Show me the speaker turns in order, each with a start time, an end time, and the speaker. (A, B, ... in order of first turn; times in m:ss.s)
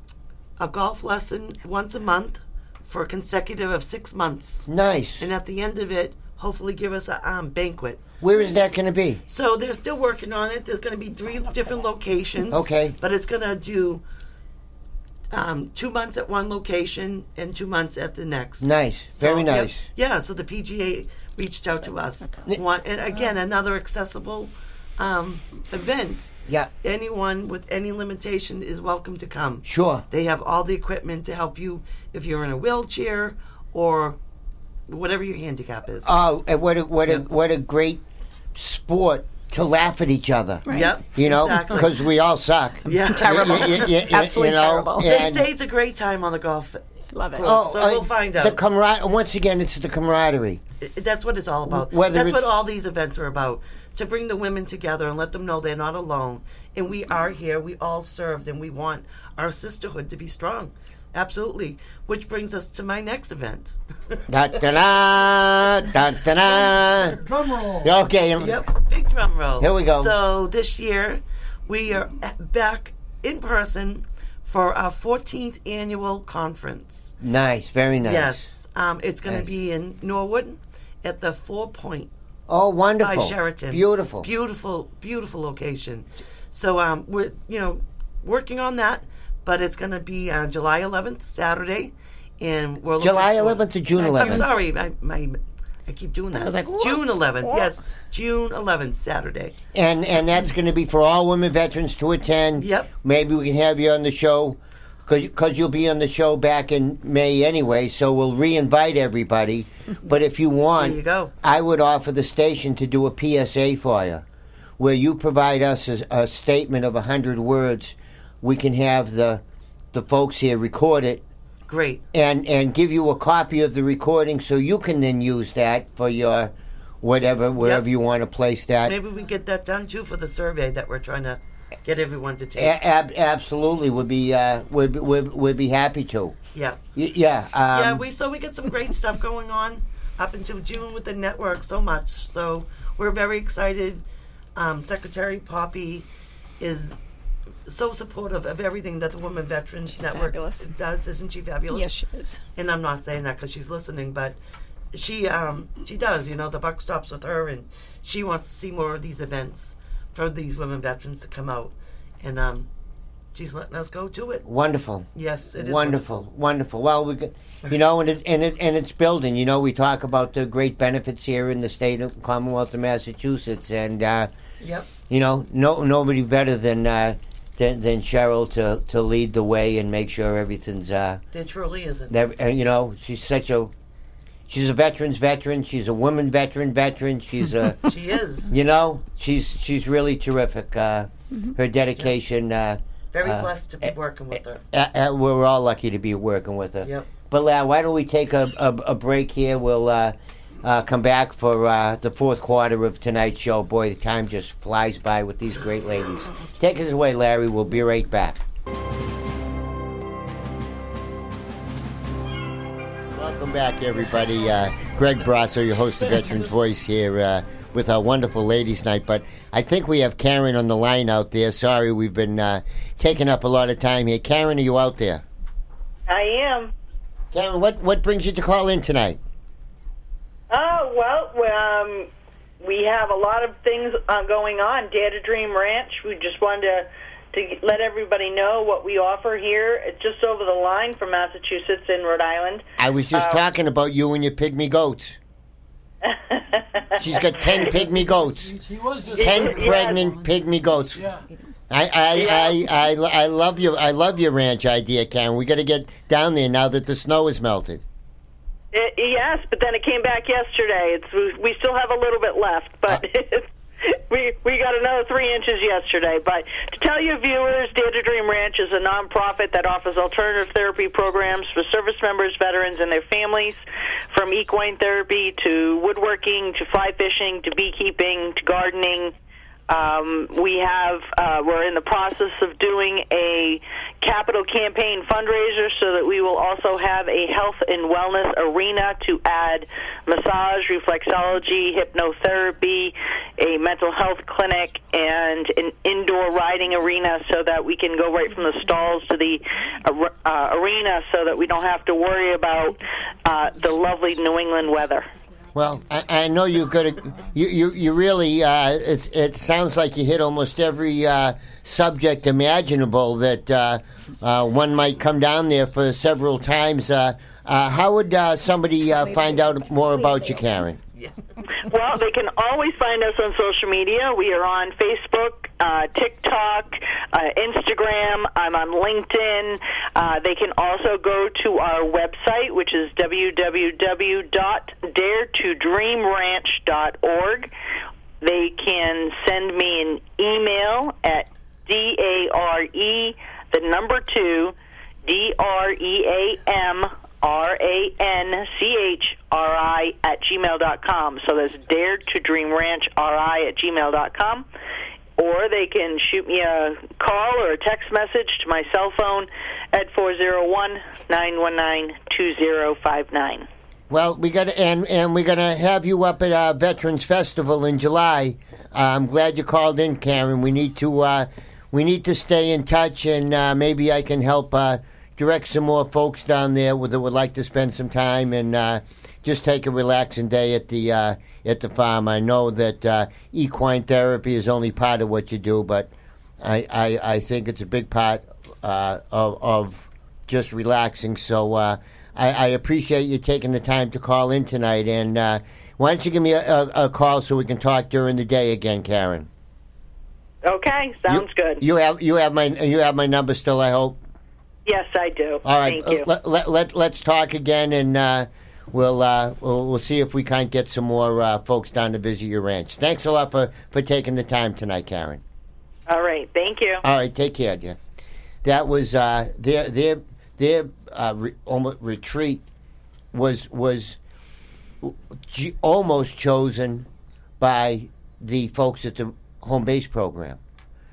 0:00.6-0:04.7 A
0:04.7-0:05.2 B
0:05.2-0:08.0 A
0:08.2-0:09.2 B
0:09.3-0:14.0 A
0:12.5-0:12.9 B
0:15.3-0:34.2 A
0:18.6-0:19.8 B
0:29.6-0:30.0 B
0:34.9-0:36.1 A
0:36.0-0:38.0 B
0:38.5-0:45.5 B
0:40.6-0:40.9 C
0:40.7-0:41.9 A
0:42.9-0:43.9 A
0:43.0-0:45.1 C
0:45.0-0:46.8 A
0:47.1-0:47.5 C
0:47.3-0:48.6 A
0:47.4-0:50.6 B
0:50.8-1:04.2 A
0:51.7-0:52.5 B
1:04.3-1:07.2 B
1:06.4-1:08.0 D
1:07.8-1:08.6 B
1:08.4-1:17.1 A
1:09.6-1:10.1 B
1:17.2-1:18.5 B
1:18.0-1:22.1 A
1:22.5-1:24.3 B
1:23.0-1:39.5 A
1:33.0-1:34.5 B
1:34.0-1:34.5 C
1:36.3-1:37.7 C
1:39.7-1:54.2 B
1:42.6-1:42.9 A
1:50.8-1:51.3 A
1:54.8-2:01.2 B
2:01.7-2:02.0 A
2:02.1-2:08.9 B
2:07.6-2:07.8 A
2:08.8-2:12.8 A
2:12.6-2:16.4 B
2:16.5-2:16.8 A
2:16.9-2:18.0 B
2:17.7-2:24.0 A
2:24.6-2:26.1 A
2:26.6-2:27.0 A
2:27.7-2:31.9 A
2:29.9-2:30.7 C
2:31.7-2:32.4 C
2:32.6-2:34.4 A
2:34.9-2:42.7 A
2:43.3-2:44.4 A
2:44.4-2:54.3 B
2:45.1-2:46.0 A
2:54.6-2:54.9 A
2:55.1-3:01.2 B
3:01.3-3:02.2 A
3:02.1-3:03.7 B
3:04.5-3:07.9 B
3:07.8-3:08.5 A
3:08.5-3:13.5 B
3:13.1-3:14.6 A
3:14.7-3:28.4 B
3:16.8-3:17.1 A
3:33.1-3:45.2 B
3:46.1-3:46.7 E
3:47.3-3:49.2 B
3:50.5-3:52.1 E
3:52.6-4:03.4 E
4:02.8-4:05.2 B
4:06.0-4:07.0 E
4:07.0-4:08.5 B
4:07.6-4:10.2 D
4:09.1-4:11.1 B
4:09.2-4:10.0 E
4:10.9-4:11.2 D
4:11.7-4:17.8 B
4:12.1-4:12.5 E
4:18.7-4:33.6 E
4:34.1-4:39.1 E
4:39.7-5:05.1 E
5:05.5-5:20.8 B
5:20.0-5:20.4 C
5:21.7-5:37.5 E
5:38.2-5:44.5 E
5:45.0-5:54.5 E
5:55.2-6:03.4 E
6:03.9-6:39.3 B
6:40.4-6:41.6 E
6:41.1-6:44.0 B
6:44.6-6:46.1 E
6:45.4-6:55.2 B
6:55.9-6:56.8 E
6:56.8-6:57.8 B
6:58.4-7:02.4 B
7:03.1-7:04.0 B
7:04.8-7:06.9 B
7:07.4-7:10.4 B